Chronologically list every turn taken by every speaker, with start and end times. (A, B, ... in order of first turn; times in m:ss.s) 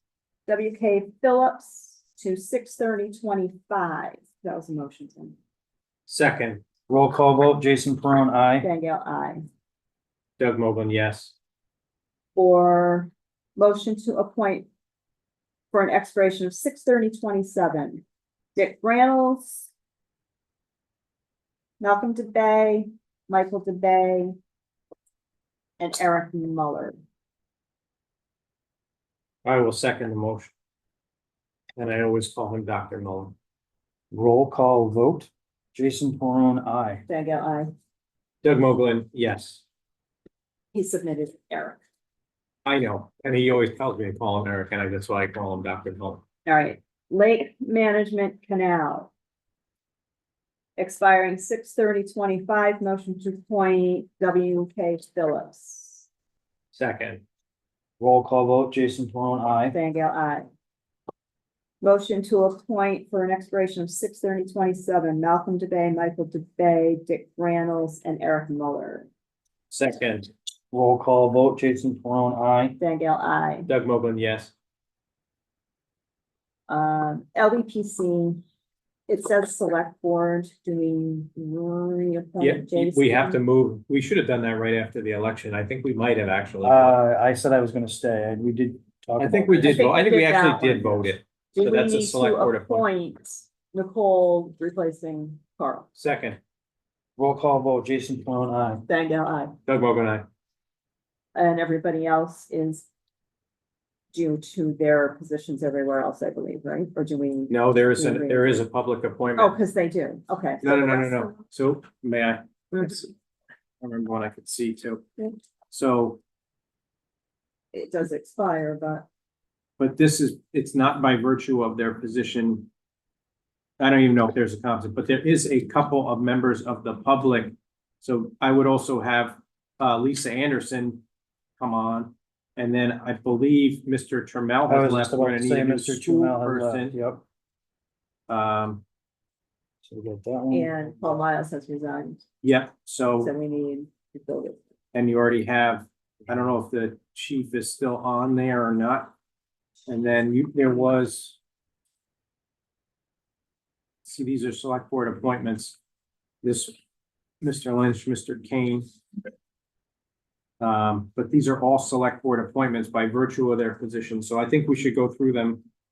0:00.5-0:05.4 A
0:06.1-0:06.6 B
0:06.9-0:08.7 C
0:08.6-0:09.4 A
0:10.4-0:11.3 B
0:12.4-0:14.7 A
0:15.7-0:18.0 A
0:18.6-0:19.7 A
0:21.8-0:24.4 A
0:25.8-0:27.0 A
0:29.4-0:30.5 B
0:31.8-0:33.4 B
0:34.1-0:37.0 C
0:37.1-0:37.7 A
0:38.4-0:39.6 B
0:40.7-0:41.8 A
0:42.6-0:46.2 B
0:46.5-0:49.1 A
0:50.8-0:56.1 A
0:56.7-0:57.2 B
0:58.0-0:59.8 C
0:59.7-1:00.5 A
1:01.8-1:09.1 A
1:09.7-1:10.3 B
1:10.7-1:12.8 C
1:12.8-1:13.7 A
1:13.7-1:14.5 B
1:16.7-1:18.4 A
1:19.1-1:23.4 A
1:22.4-1:27.0 B
1:26.6-1:29.8 C
1:29.2-1:32.8 B
1:29.6-1:35.9 A
1:36.0-1:36.4 B
1:37.2-1:38.8 C
1:38.9-1:39.6 A
1:39.7-1:40.3 B
1:41.4-1:42.9 A
1:44.1-1:48.6 A
1:47.5-1:49.6 B
1:49.4-1:51.4 A
1:50.6-1:53.1 B
1:52.7-1:53.0 A
1:53.8-1:55.0 B
1:55.7-1:56.2 B
1:57.7-1:59.1 A
1:59.8-2:02.7 B
2:03.8-2:11.0 B
2:11.6-2:17.0 B
2:14.7-2:17.2 C
2:18.3-2:18.8 B
2:19.8-2:20.8 C
2:20.5-2:22.2 A
2:22.4-2:23.3 B
2:23.2-2:24.6 A
2:24.9-2:29.1 B
2:29.9-2:31.4 B
2:34.0-2:35.8 B
2:36.4-2:36.8 B
2:37.4-2:38.9 B
2:40.6-2:45.6 B